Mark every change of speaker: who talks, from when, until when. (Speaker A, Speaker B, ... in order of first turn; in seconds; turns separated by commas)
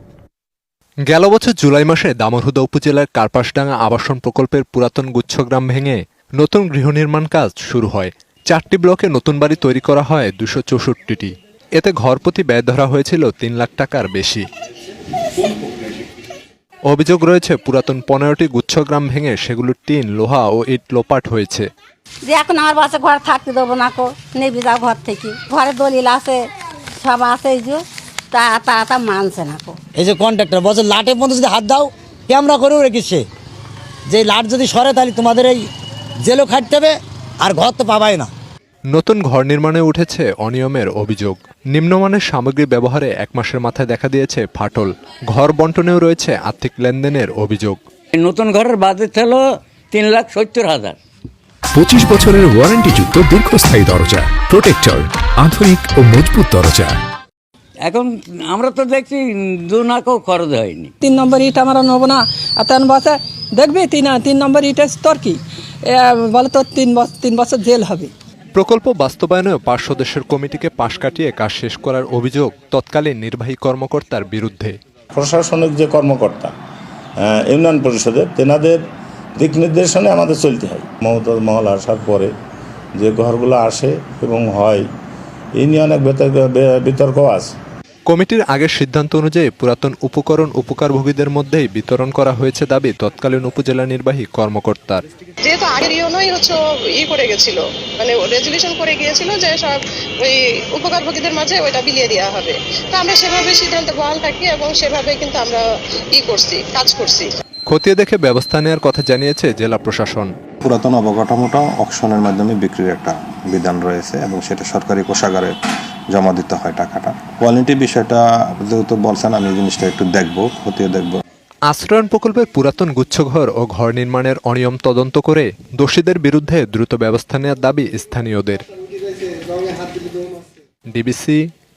Speaker A: 1.1-14.4, Speaker A: 16.9-21.7, Speaker B: 22.3-26.5, Speaker B: 27.0-29.8, Speaker C: 30.0-33.2, Speaker C: 34.1-35.6, Speaker C: 36.3-36.9, Speaker C: 37.5-38.3, Speaker A: 38.9-47.8, Speaker D: 48.1-51.0, Speaker E: 51.7-57.0, Speaker D: 57.8-60.9, Speaker F: 61.0-68.1, Speaker A: 68.5-74.8, Speaker G: 75.1-76.5, Speaker G: 77.2-78.8, Speaker G: 79.3-82.3, Speaker G: 83.0-84.8, Speaker G: 85.6-87.5, Speaker A: 88.1-95.0, Speaker H: 95.5-105.6, Speaker H: 106.2-107.3, Speaker A: 107.7-110.3, Speaker I: 110.6-115.5, Speaker I: 116.1-121.2, Speaker A: 121.7-128.6, Speaker A: 130.9-131.4